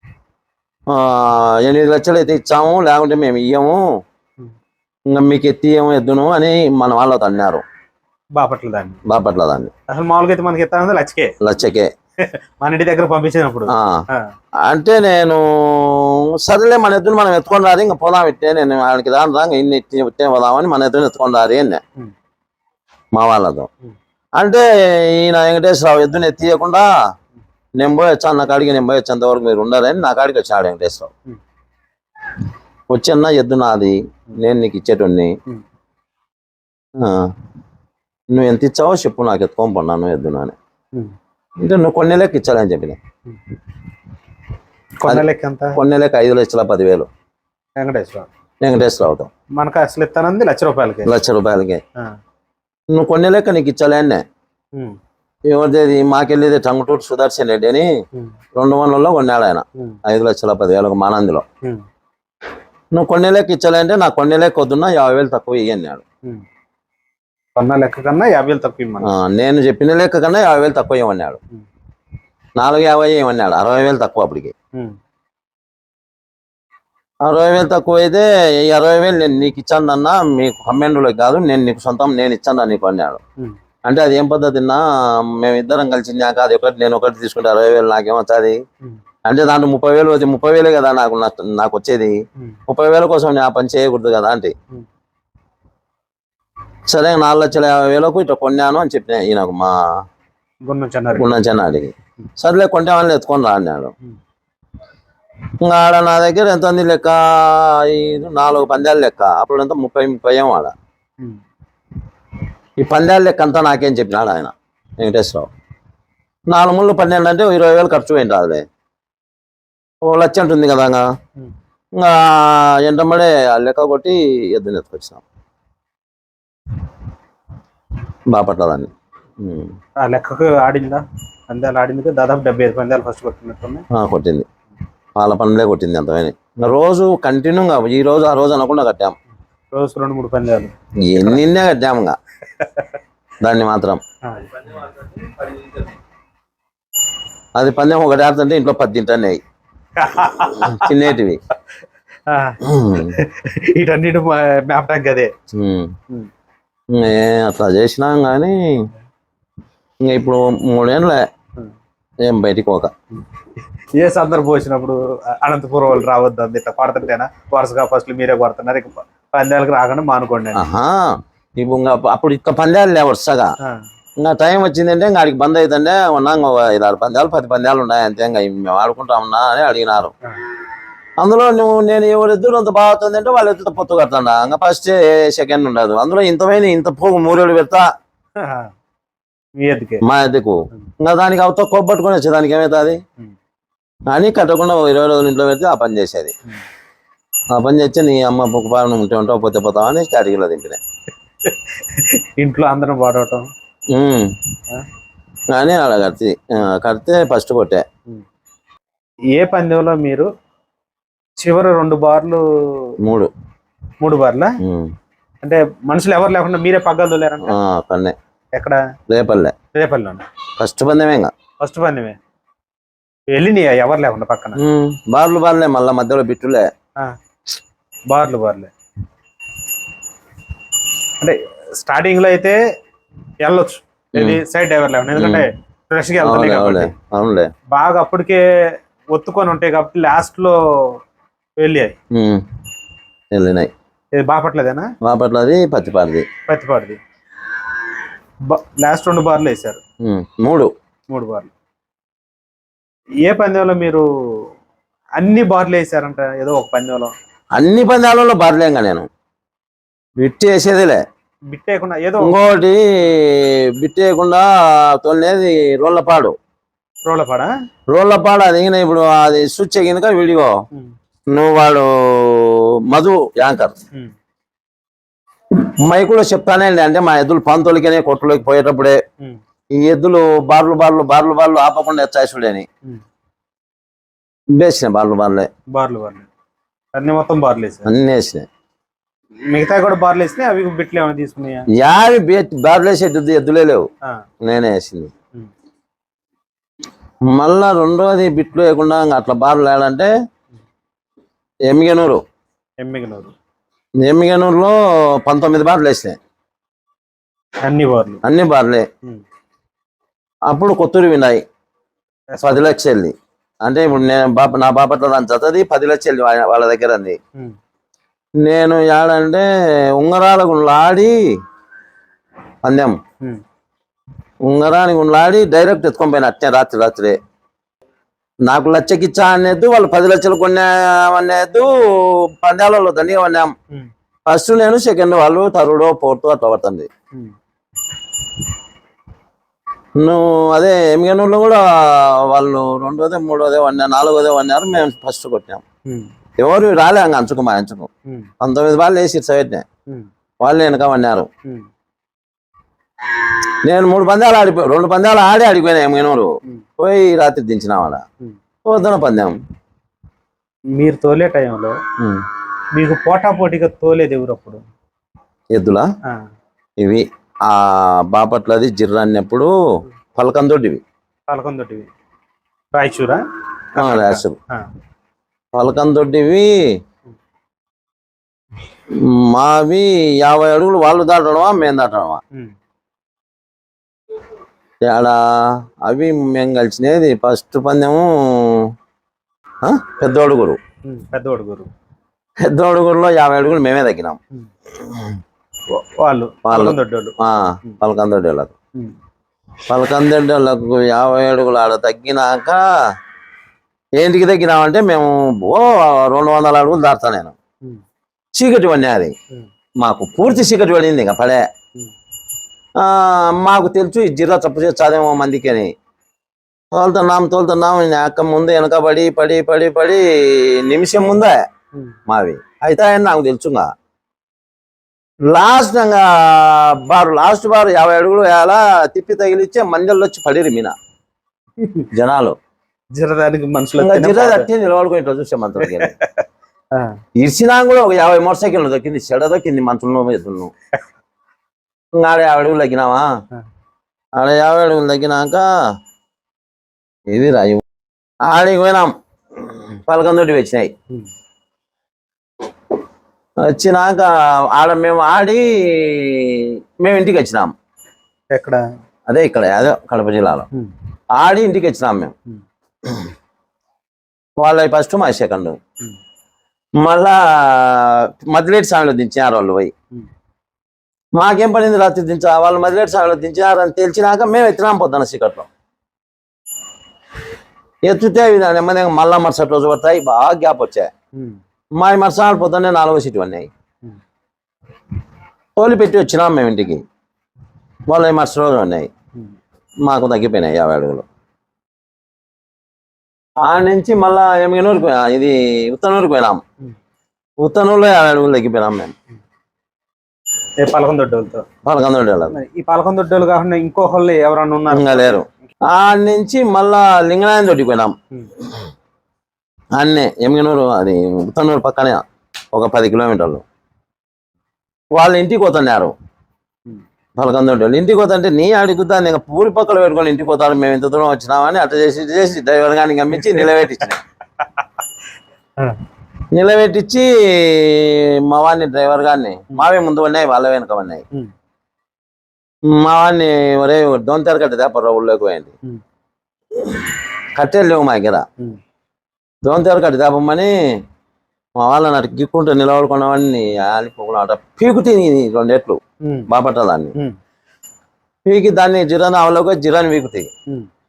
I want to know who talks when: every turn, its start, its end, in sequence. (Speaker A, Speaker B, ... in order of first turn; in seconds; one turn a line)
Speaker A: 0.9-3.9
Speaker A: 5.1-7.6
Speaker B: 8.3-9.0
Speaker A: 9.1-9.7
Speaker B: 9.9-11.3
Speaker A: 11.4-11.9
Speaker B: 12.2-14.3
Speaker A: 13.7-14.0
Speaker A: 14.6-21.8
Speaker A: 23.1-23.7
Speaker A: 24.4-26.9
Speaker A: 27.8-31.1
Speaker A: 32.9-35.4
Speaker A: 37.0-37.3
Speaker A: 38.3-40.5
Speaker A: 41.6-43.0
Speaker B: 45.0-45.8
Speaker A: 45.8-47.1
Speaker B: 47.8-48.3
Speaker A: 48.6-49.3
Speaker B: 49.5-51.2
Speaker A: 51.0-51.8
Speaker A: 52.9-54.2
Speaker A: 55.5-57.9
Speaker A: 58.5-61.5
Speaker A: 62.9-66.0
Speaker B: 67.6-69.1
Speaker A: 69.0-71.4
Speaker A: 72.6-74.5
Speaker A: 77.2-83.2
Speaker A: 83.8-88.6
Speaker A: 89.2-92.2
Speaker A: 92.7-94.5
Speaker A: 96.9-100.0
Speaker B: 100.7-101.5
Speaker A: 101.1-103.9
Speaker A: 105.6-110.7
Speaker A: 112.8-115.5
Speaker A: 116.5-118.7
Speaker A: 120.0-121.1
Speaker A: 122.0-125.2
Speaker A: 128.3-129.7
Speaker B: 130.0-133.9
Speaker A: 133.9-134.5
Speaker A: 135.2-139.2
Speaker B: 139.7-141.4
Speaker A: 141.0-142.2
Speaker B: 142.6-142.9
Speaker A: 143.4-144.0
Speaker B: 144.2-145.1
Speaker A: 147.6-149.4
Speaker B: 150.0-151.0
Speaker A: 150.5-151.4
Speaker B: 152.3-155.3
Speaker A: 152.6-153.2
Speaker A: 155.5-155.9
Speaker A: 156.9-158.9
Speaker A: 160.0-161.2
Speaker A: 162.2-162.9
Speaker B: 163.9-170.6
Speaker A: 170.6-173.6
Speaker A: 174.2-180.1
Speaker A: 181.2-187.9
Speaker B: 188.4-188.7
Speaker B: 189.6-190.0
Speaker A: 190.0-193.0
Speaker A: 194.1-196.3
Speaker A: 197.5-200.8
Speaker B: 201.4-203.5
Speaker A: 203.9-204.3
Speaker A: 205.5-207.8
Speaker B: 209.3-210.3
Speaker B: 211.4-213.0
Speaker A: 213.0-213.3
Speaker B: 214.0-214.6
Speaker A: 214.6-214.9
Speaker B: 215.4-217.6
Speaker A: 217.4-218.2
Speaker B: 218.6-218.8
Speaker A: 219.1-219.6
Speaker B: 219.7-220.3
Speaker A: 220.6-221.3
Speaker B: 221.6-222.2
Speaker B: 223.3-224.6
Speaker A: 224.6-226.7
Speaker B: 228.1-228.7
Speaker B: 231.2-232.6
Speaker B: 233.4-236.9
Speaker A: 234.2-234.4
Speaker A: 235.2-235.5
Speaker A: 236.2-237.5
Speaker B: 237.7-241.0
Speaker B: 241.6-242.0
Speaker A: 242.1-242.4
Speaker A: 243.3-243.7
Speaker B: 244.2-244.9
Speaker A: 245.0-246.3
Speaker B: 246.5-247.0
Speaker B: 248.4-249.8
Speaker A: 250.0-250.7
Speaker B: 251.1-251.5
Speaker B: 253.2-254.5
Speaker B: 255.2-257.1
Speaker A: 257.6-259.1
Speaker A: 260.2-261.0
Speaker B: 261.5-262.4
Speaker A: 262.2-266.4
Speaker B: 267.1-267.5
Speaker A: 267.9-270.6
Speaker A: 271.3-273.8
Speaker A: 275.5-279.0
Speaker A: 279.7-282.7
Speaker A: 284.6-285.5
Speaker B: 285.7-286.3
Speaker B: 286.9-287.9
Speaker A: 287.9-288.5
Speaker B: 289.5-291.7
Speaker A: 291.7-293.9
Speaker A: 294.4-295.1
Speaker A: 297.3-300.1
Speaker A: 301.7-302.2
Speaker B: 302.8-303.3
Speaker A: 304.0-306.2
Speaker B: 307.6-308.2
Speaker A: 308.2-308.9
Speaker A: 310.5-311.4
Speaker B: 312.3-312.7
Speaker A: 312.4-317.2
Speaker A: 318.4-321.3
Speaker A: 322.6-323.0
Speaker A: 324.4-327.2
Speaker A: 328.4-333.5
Speaker A: 334.3-336.9
Speaker A: 340.0-345.6
Speaker A: 346.4-349.6
Speaker A: 350.4-351.3
Speaker A: 353.6-358.0
Speaker A: 358.6-359.4
Speaker B: 360.7-361.8
Speaker A: 362.0-362.2
Speaker B: 362.7-364.6
Speaker A: 365.5-365.9
Speaker A: 366.8-369.5
Speaker A: 370.1-370.8
Speaker B: 371.3-371.9
Speaker B: 372.7-373.2
Speaker B: 373.8-374.7
Speaker A: 373.8-374.4
Speaker A: 375.5-376.8
Speaker A: 378.9-382.2
Speaker A: 384.9-388.7
Speaker A: 389.6-390.6
Speaker B: 390.8-391.7
Speaker A: 392.4-394.2
Speaker A: 394.8-395.2
Speaker B: 395.7-397.8
Speaker A: 396.4-398.5
Speaker A: 399.7-402.7
Speaker A: 404.0-407.4
Speaker A: 408.4-409.1
Speaker A: 409.8-411.5
Speaker A: 412.8-415.7
Speaker A: 416.7-421.4
Speaker A: 422.1-423.7
Speaker A: 425.3-430.8
Speaker B: 431.6-431.9
Speaker A: 431.9-432.4
Speaker B: 432.9-434.5
Speaker A: 433.8-436.0
Speaker B: 435.6-436.2
Speaker A: 437.2-440.5
Speaker A: 442.0-443.1
Speaker A: 444.2-445.5
Speaker A: 447.1-447.6
Speaker A: 448.2-450.7
Speaker A: 453.4-457.5
Speaker B: 458.3-458.6
Speaker A: 459.1-460.5
Speaker A: 461.1-462.1
Speaker A: 464.4-465.6
Speaker A: 466.8-469.7
Speaker A: 471.2-475.5
Speaker A: 477.8-480.9
Speaker B: 481.1-481.4
Speaker A: 481.8-483.5
Speaker A: 485.6-486.8
Speaker A: 487.9-488.9
Speaker A: 489.9-491.1
Speaker A: 493.4-496.4
Speaker A: 497.4-498.9
Speaker B: 500.6-501.5
Speaker A: 501.6-502.4
Speaker B: 502.3-505.2
Speaker A: 504.7-507.9
Speaker A: 509.8-513.4
Speaker A: 514.9-516.0
Speaker A: 517.2-524.0
Speaker A: 526.3-531.0
Speaker A: 532.7-535.5
Speaker A: 536.5-538.2
Speaker A: 539.4-540.5
Speaker A: 541.6-546.9
Speaker B: 546.0-546.3
Speaker A: 548.3-550.3